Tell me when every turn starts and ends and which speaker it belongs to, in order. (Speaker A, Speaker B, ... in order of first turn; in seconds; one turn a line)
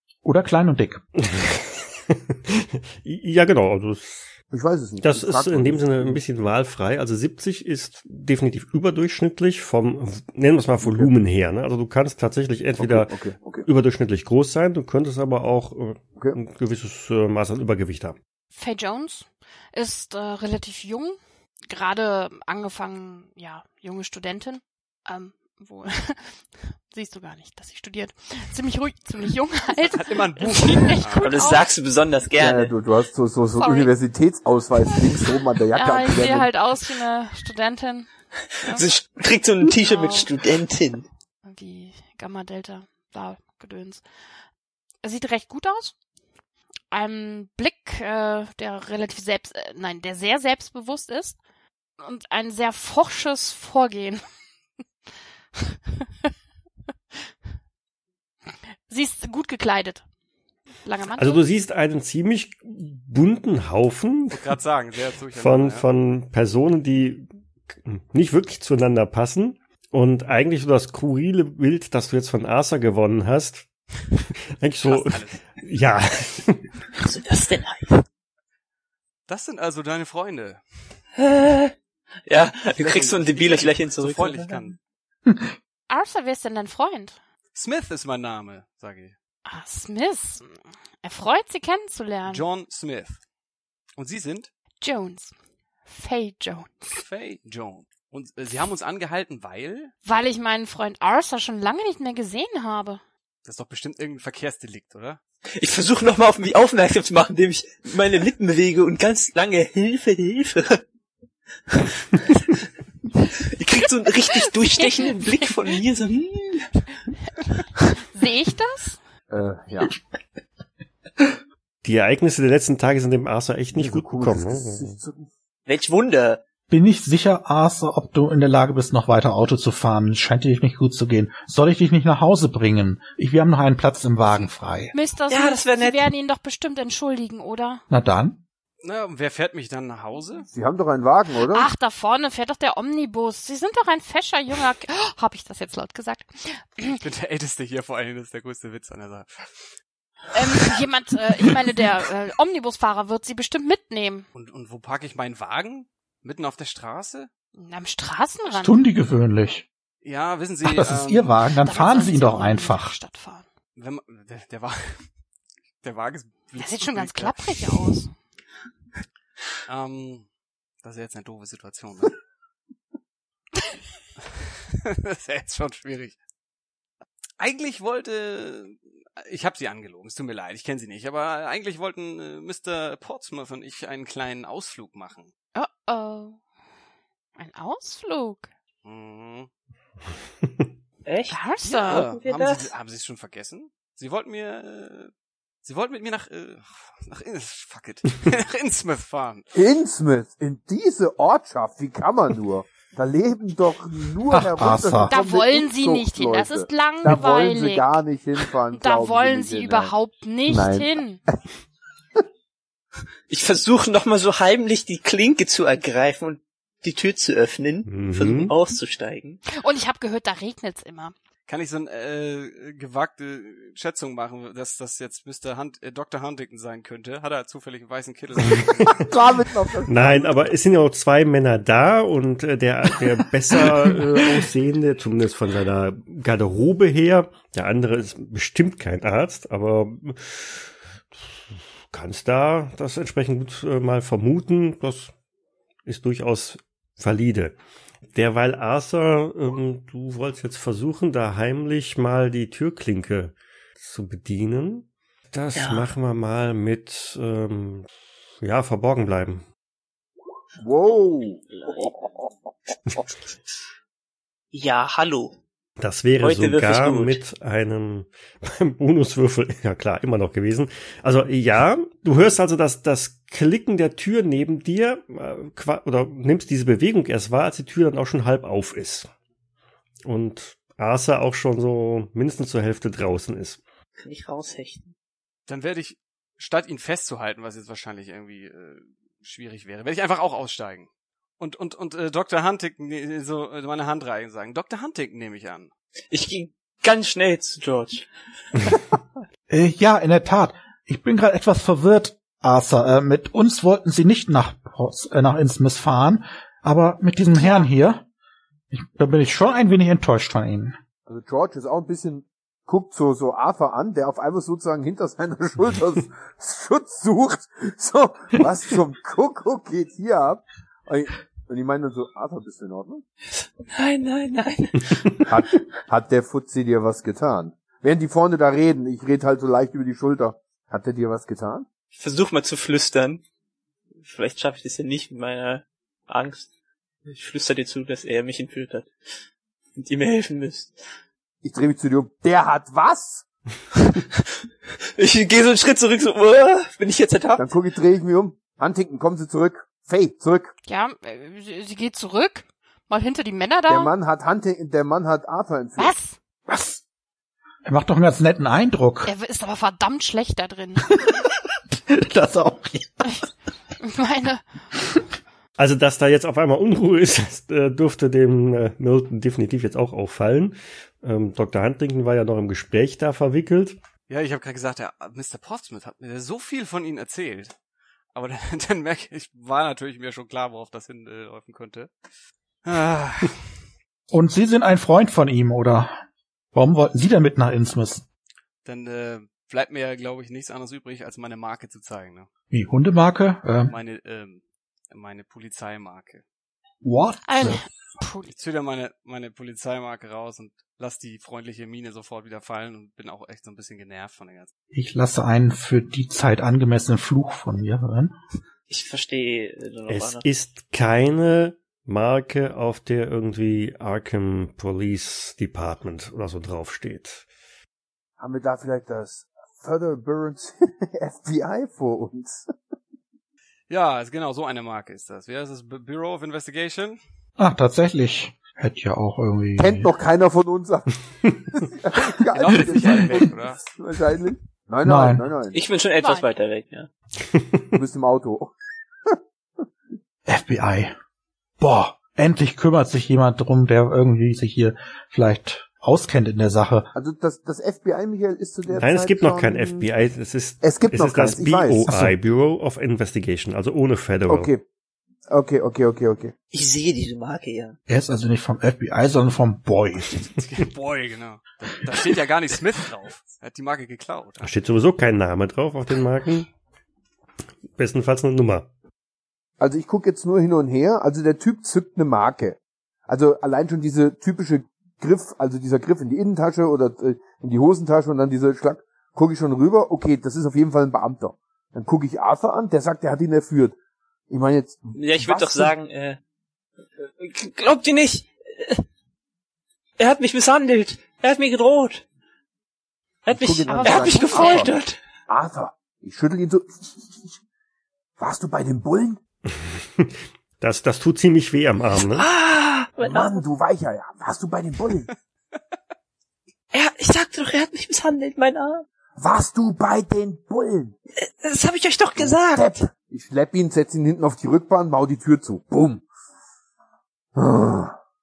Speaker A: 0.2-1.0
Speaker B: 1.2-4.3
Speaker C: 4.5-6.2
Speaker B: 5.0-18.2
Speaker C: 10.8-11.1
Speaker C: 12.8-13.7
Speaker D: 18.5-21.2
Speaker D: 21.7-31.7
Speaker E: 29.9-31.4
Speaker F: 31.2-32.7
Speaker C: 32.4-36.5
Speaker D: 33.6-33.9
Speaker D: 35.7-38.1
Speaker F: 38.6-41.1
Speaker D: 39.8-40.3
Speaker D: 41.5-44.0
Speaker D: 45.0-46.0
Speaker D: 46.9-51.4
Speaker D: 52.0-54.2
Speaker D: 58.9-60.0
Speaker D: 60.8-61.4
Speaker B: 61.2-64.6
Speaker E: 64.3-65.9
Speaker B: 65.3-73.7
Speaker B: 74.6-76.7
Speaker E: 74.8-75.4
Speaker F: 77.0-78.0
Speaker E: 79.3-80.6
Speaker F: 81.2-81.7
Speaker F: 82.3-84.7
Speaker E: 82.7-84.8
Speaker A: 85.3-85.5
Speaker D: 85.9-87.2
Speaker E: 87.5-89.2
Speaker D: 89.5-92.5
Speaker E: 92.3-93.2
Speaker E: 94.0-94.5
Speaker D: 94.8-95.3
Speaker D: 95.9-96.9
Speaker E: 96.9-100.0
Speaker D: 100.0-103.0
Speaker E: 103.5-105.2
Speaker F: 105.6-110.8
Speaker F: 111.7-112.6
Speaker F: 113.4-116.7
Speaker D: 114.7-115.5
Speaker D: 117.4-119.0
Speaker C: 119.3-119.9
Speaker B: 121.8-125.0
Speaker C: 123.7-125.3
Speaker F: 125.7-126.4
Speaker A: 126.7-134.9
Speaker D: 134.9-137.8
Speaker F: 135.3-136.1
Speaker A: 137.9-138.4
Speaker E: 138.8-140.5
Speaker C: 140.5-141.7
Speaker D: 141.5-147.0
Speaker E: 147.0-149.7
Speaker D: 150.3-154.3
Speaker E: 154.3-157.3
Speaker D: 157.6-158.8
Speaker A: 158.5-159.7
Speaker E: 160.0-161.4
Speaker A: 160.6-163.0
Speaker D: 161.6-163.5
Speaker E: 163.8-165.0
Speaker E: 165.8-168.0
Speaker D: 166.6-168.1
Speaker E: 169.7-170.3
Speaker E: 170.8-172.2
Speaker E: 174.2-176.2
Speaker E: 177.4-185.3
Speaker D: 185.6-186.4
Speaker D: 187.4-188.5
Speaker E: 188.8-189.5
Speaker B: 190.4-190.7
Speaker F: 191.1-192.7
Speaker D: 191.3-192.1
Speaker E: 191.7-195.1
Speaker E: 195.6-199.5
Speaker C: 199.5-209.9
Speaker A: 204.3-205.2
Speaker D: 205.1-208.0
Speaker D: 208.7-211.2
Speaker C: 210.5-210.9
Speaker F: 213.3-219.4
Speaker B: 217.9-218.5
Speaker D: 219.5-221.1
Speaker E: 221.5-229.1
Speaker C: 228.9-230.5
Speaker B: 229.9-245.1
Speaker B: 245.9-247.6
Speaker B: 248.1-257.9
Speaker F: 255.6-255.9
Speaker B: 258.4-259.4
Speaker C: 260.6-261.4
Speaker F: 261.5-262.0
Speaker F: 264.5-265.4
Speaker B: 265.8-279.1
Speaker F: 266.2-267.2
Speaker B: 280.1-283.6
Speaker F: 284.0-284.9
Speaker E: 285.5-295.7
Speaker F: 296.1-298.1
Speaker A: 299.5-308.1
Speaker D: 307.3-307.7
Speaker A: 308.7-310.8
Speaker C: 311.1-323.0
Speaker F: 323.7-325.3
Speaker C: 325.3-331.7
Speaker F: 331.9-333.2
Speaker F: 334.0-336.5
Speaker F: 337.1-338.9
Speaker F: 339.8-340.8
Speaker C: 341.4-343.3
Speaker F: 343.8-344.3
Speaker F: 345.0-347.5
Speaker C: 347.4-350.5
Speaker D: 350.7-353.9
Speaker C: 353.7-355.9
Speaker D: 355.8-356.2
Speaker A: 356.5-356.8
Speaker A: 357.6-359.1
Speaker D: 359.1-360.9
Speaker A: 360.9-363.1
Speaker D: 363.8-364.4
Speaker B: 365.6-373.8
Speaker E: 374.1-377.6
Speaker E: 378.1-381.9
Speaker E: 382.6-383.4
Speaker A: 384.1-385.9
Speaker A: 386.5-388.1
Speaker E: 388.6-392.3
Speaker A: 392.5-393.8
Speaker E: 393.7-396.2
Speaker A: 396.8-397.7
Speaker D: 397.3-398.3
Speaker E: 398.3-404.5
Speaker A: 404.7-408.1
Speaker F: 408.7-410.2
Speaker B: 409.9-417.3
Speaker C: 418.2-422.5
Speaker E: 423.7-427.0
Speaker A: 427.4-429.9
Speaker C: 429.6-435.6
Speaker E: 432.3-433.7
Speaker A: 432.7-433.2
Speaker A: 434.8-435.3
Speaker F: 435.5-436.9
Speaker D: 436.0-436.3
Speaker B: 437.3-437.6
Speaker C: 437.7-438.5
Speaker A: 440.3-440.9
Speaker A: 441.6-446.9
Speaker C: 446.9-449.9
Speaker B: 448.7-454.5
Speaker C: 450.6-451.9
Speaker C: 454.3-454.6
Speaker C: 455.3-456.3
Speaker F: 456.5-457.8
Speaker A: 457.9-460.2
Speaker E: 460.2-464.5
Speaker B: 464.4-466.5
Speaker B: 467.7-468.7
Speaker C: 469.6-483.8
Speaker C: 484.3-485.7
Speaker F: 484.9-486.2
Speaker F: 487.0-488.9
Speaker F: 490.0-492.1
Speaker F: 493.3-495.0
Speaker C: 493.3-494.7
Speaker D: 493.7-494.7
Speaker C: 495.3-497.4
Speaker C: 498.2-499.2
Speaker B: 499.5-502.3
Speaker F: 502.0-503.4
Speaker C: 503.0-505.1
Speaker F: 506.7-508.9
Speaker C: 509.2-510.9
Speaker F: 511.2-512.7
Speaker C: 512.2-516.1
Speaker C: 517.4-518.0